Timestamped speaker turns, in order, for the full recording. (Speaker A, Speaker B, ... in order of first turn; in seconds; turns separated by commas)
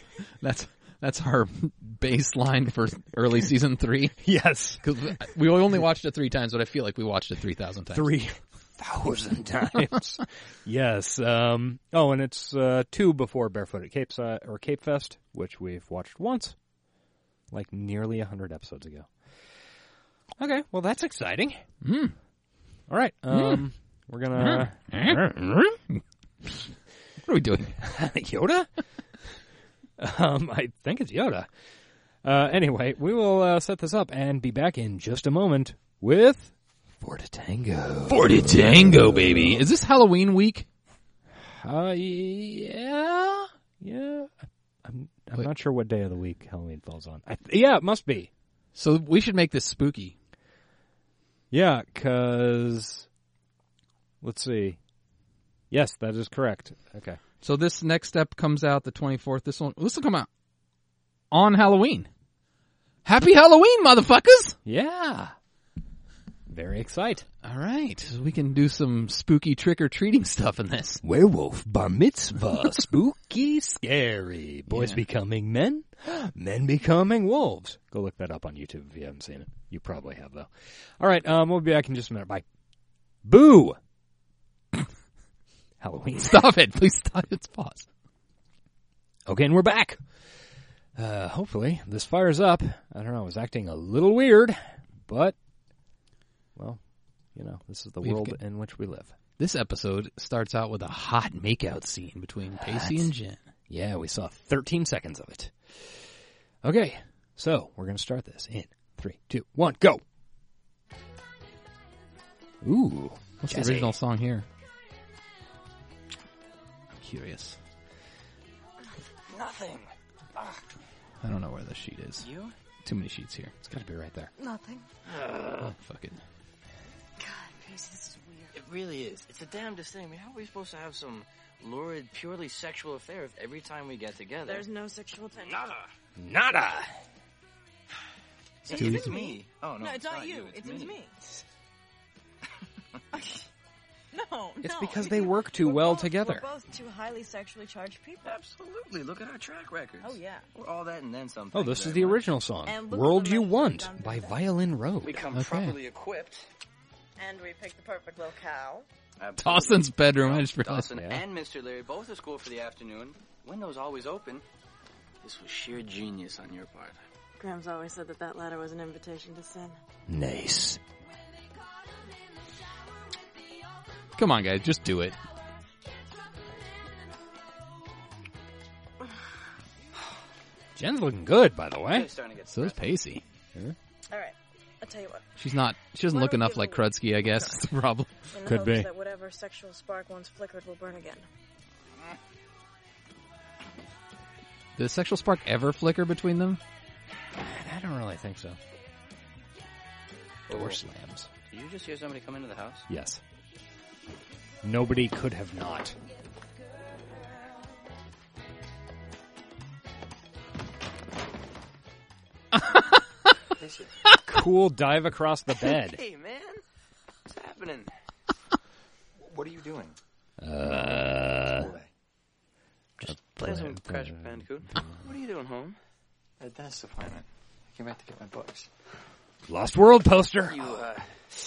Speaker A: 0.4-4.2, Speaker B: 4.2-4.8, Speaker A: 4.8-8.1, Speaker B: 7.9-16.6, Speaker B: 17.5-19.1, Speaker B: 20.4-21.6, Speaker A: 21.8-22.1, Speaker B: 22.9-25.8, Speaker A: 23.3-23.6, Speaker A: 24.4-25.2, Speaker A: 27.2-27.9, Speaker B: 27.8-28.7, Speaker B: 30.0-31.5, Speaker B: 32.2-39.6, Speaker A: 38.1-40.7, Speaker B: 41.4-48.3, Speaker A: 48.8-50.2, Speaker B: 51.5-53.1, Speaker B: 54.2-54.8, Speaker B: 55.7-57.2, Speaker A: 57.4-60.3, Speaker A: 61.3-62.1, Speaker A: 63.0-64.6, Speaker B: 64.7-65.3, Speaker B: 66.5-67.3, Speaker A: 67.4-71.0, Speaker B: 71.0-82.5, Speaker A: 74.7-75.0, Speaker B: 83.2-83.8, Speaker B: 85.8-86.4, Speaker A: 86.2-87.9, Speaker B: 89.3-90.2, Speaker B: 91.0-95.3, Speaker B: 97.3-99.1, Speaker A: 98.0-98.4, Speaker A: 99.4-103.4, Speaker B: 102.7-103.1, Speaker B: 103.7-110.0, Speaker B: 112.6-113.9, Speaker A: 113.4-114.5, Speaker A: 116.9-117.6, Speaker C: 119.3-120.5, Speaker A: 121.2-122.3, Speaker C: 122.2-122.5, Speaker A: 122.8-123.5, Speaker B: 123.6-124.3, Speaker D: 124.4-124.8, Speaker A: 125.6-126.2, Speaker D: 127.2-128.5, Speaker C: 128.6-134.7, Speaker D: 134.4-135.7, Speaker C: 135.4-135.8, Speaker B: 136.2-136.9, Speaker C: 138.7-141.0, Speaker D: 138.7-141.2, Speaker A: 138.7-139.2, Speaker D: 144.1-148.4, Speaker B: 144.6-146.5, Speaker C: 148.2-152.2, Speaker D: 150.0-150.5, Speaker B: 151.5-155.3, Speaker D: 152.6-154.6, Speaker C: 155.0-156.5, Speaker A: 155.3-155.8, Speaker D: 157.2-158.9, Speaker C: 159.2-164.4, Speaker A: 159.4-160.9, Speaker B: 161.0-161.3, Speaker C: 165.2-167.0, Speaker D: 167.4-169.8, Speaker B: 170.1-170.8, Speaker A: 174.2-175.2, Speaker B: 180.8-182.2, Speaker C: 181.9-182.9, Speaker A: 182.5-183.2, Speaker D: 184.1-185.2, Speaker A: 185.4-188.1, Speaker D: 186.0-187.6, Speaker D: 188.3-191.3, Speaker B: 188.4-188.9, Speaker A: 194.8-196.6, Speaker B: 197.4-198.6, Speaker B: 200.5-201.3, Speaker C: 200.5-200.8, Speaker C: 201.5-202.9, Speaker B: 202.9-203.2, Speaker B: 204.6-205.9, Speaker E: 213.6-213.9, Speaker B: 214.2-216.0, Speaker C: 215.6-216.6, Speaker C: 217.3-217.9, Speaker E: 219.2-220.0, Speaker B: 220.4-221.7, Speaker E: 220.7-221.9, Speaker C: 223.0-225.8, Speaker B: 223.1-224.9, Speaker E: 226.4-228.7, Speaker B: 229.5-230.8, Speaker C: 230.5-231.1